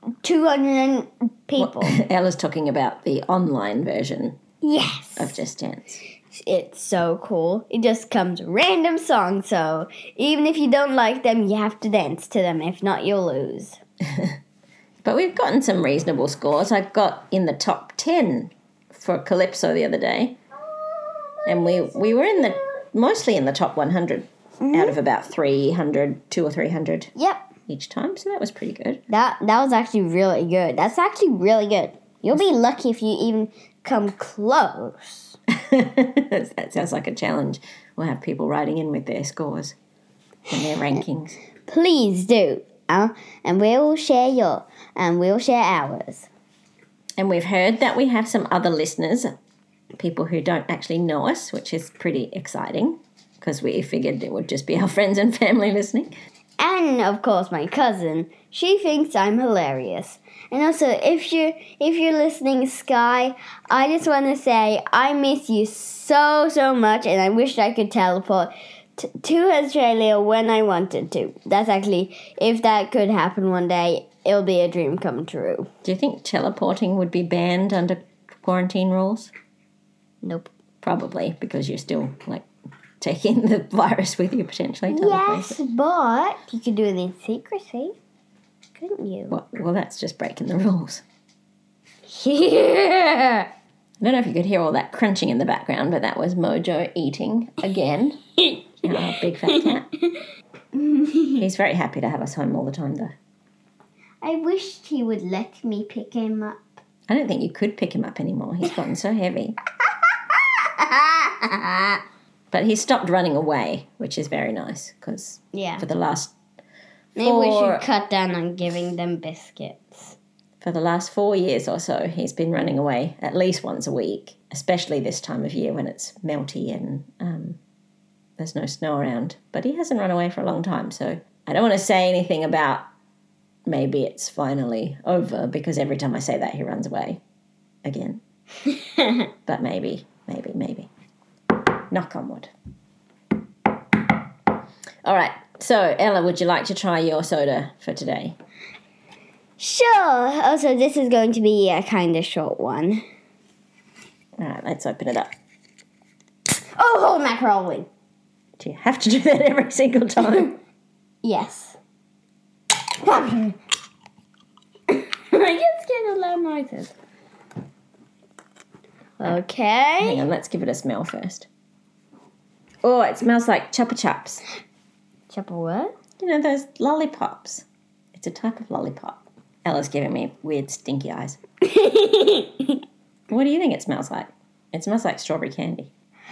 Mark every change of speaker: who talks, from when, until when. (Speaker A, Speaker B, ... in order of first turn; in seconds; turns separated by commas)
Speaker A: 0.2-2.0, Speaker B: 1.6-4.4, Speaker A: 4.6-5.4, Speaker B: 5.2-6.0, Speaker A: 6.3-13.8, Speaker B: 15.0-20.4, Speaker A: 20.7-22.6, Speaker B: 21.4-27.1, Speaker A: 24.6-25.0, Speaker A: 27.1-27.5, Speaker B: 27.7-29.0, Speaker A: 29.1-35.4, Speaker B: 35.6-39.8, Speaker B: 40.5-41.4, Speaker A: 41.6-46.3, Speaker B: 47.2-49.3, Speaker B: 50.0-56.1, Speaker A: 56.6-75.7, Speaker B: 75.8-79.3, Speaker A: 80.2-80.5, Speaker B: 80.8-82.5, Speaker B: 83.0-85.6, Speaker A: 84.9-88.0, Speaker A: 88.8-89.3, Speaker B: 89.3-91.0, Speaker A: 92.0-93.5, Speaker B: 94.0-98.2, Speaker A: 98.4-101.4, Speaker B: 98.8-99.9, Speaker B: 101.4-103.1, Speaker A: 104.2-106.8, Speaker B: 107.1-109.5, Speaker A: 110.3-112.0, Speaker B: 112.5-116.3, Speaker A: 115.5-115.8, Speaker A: 117.2-120.2, Speaker B: 117.2-117.9, Speaker B: 120.6-127.6, Speaker B: 128.4-132.8, Speaker B: 133.7-137.2, Speaker B: 137.8-138.2, Speaker B: 139.4-140.9, Speaker B: 141.9-142.5, Speaker B: 145.0-148.3, Speaker A: 149.6-153.0, Speaker B: 154.4-155.3, Speaker A: 156.8-157.9, Speaker B: 158.6-160.6, Speaker A: 161.2-161.8, Speaker A: 163.0-163.6, Speaker A: 164.9-166.9, Speaker A: 169.2-170.2, Speaker B: 170.0-171.5, Speaker B: 172.8-174.4, Speaker A: 175.3-175.9, Speaker B: 176.2-181.4, Speaker A: 181.6-182.8, Speaker B: 183.3-185.9